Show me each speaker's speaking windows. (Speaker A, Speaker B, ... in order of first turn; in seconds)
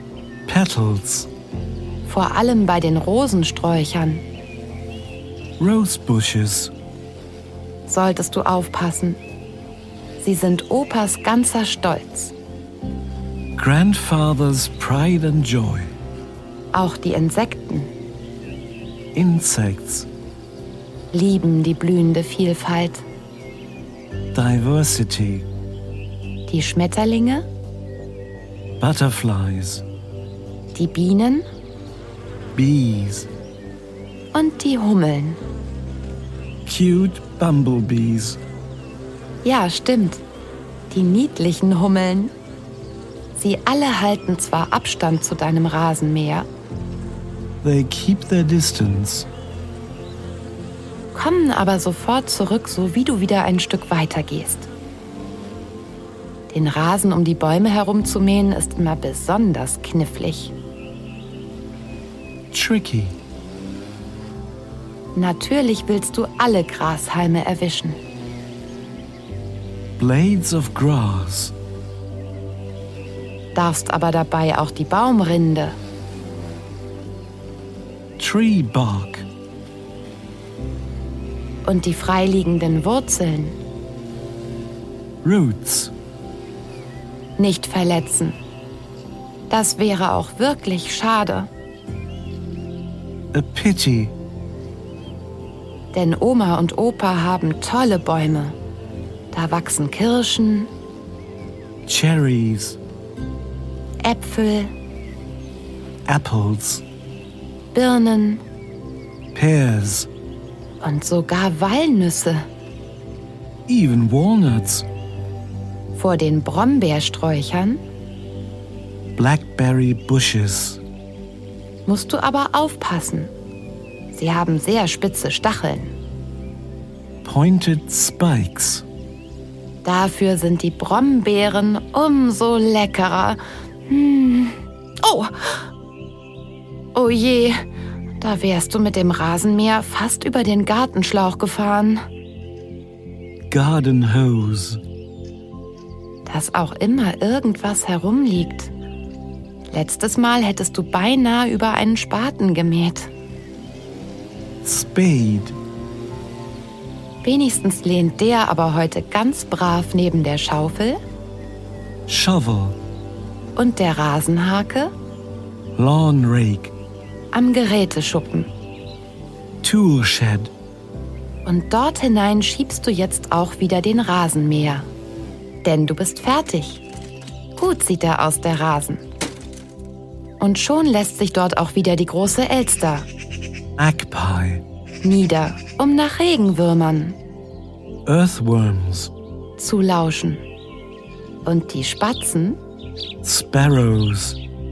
Speaker A: 0.5-1.3, 5.6-6.7, 13.6-15.9, 19.1-20.1, 24.3-25.5, 28.8-29.8, 32.5-33.3, 36.6-38.4, 47.6-49.3, 62.5-63.1, 70.0-71.5, 78.2-79.3, 85.2-85.9, 93.3-94.1, 101.8-102.8, 106.1-106.8, 109.3-110.1, 113.7-114.8, 119.2-120.8, 127.2-128.8, 143.5-144.8, 154.6-155.6, 162.1-162.8, 165.8-166.7, 169.6-170.5, 183.8-184.6, 188.1-189.1, 193.2-194.4
Speaker B: 2.0-4.2, 7.9-9.2, 10.2-12.3, 16.7-17.9, 21.1-23.0, 26.5-27.4, 30.7-31.4, 34.3-35.4, 39.4-40.2, 40.9-42.3, 43.3-46.5, 51.1-54.7, 56.5-60.5, 65.1-68.0, 73.5-75.8, 81.6-83.6, 87.4-88.4, 89.5-91.5, 95.9-98.6, 99.3-100.7, 104.0-104.7, 107.7-108.4, 110.8-112.5, 115.9-117.8, 121.8-123.3, 124.1-125.9, 129.8-135.6, 136.9-137.6, 138.2-142.0, 146.2-148.7, 149.7-153.1, 157.2-161.0, 163.6-164.9, 167.3-168.5, 171.4-174.9, 175.6-176.8, 177.6-179.0, 180.4-183.1, 185.0-187.2, 189.6-190.4, 191.4-192.6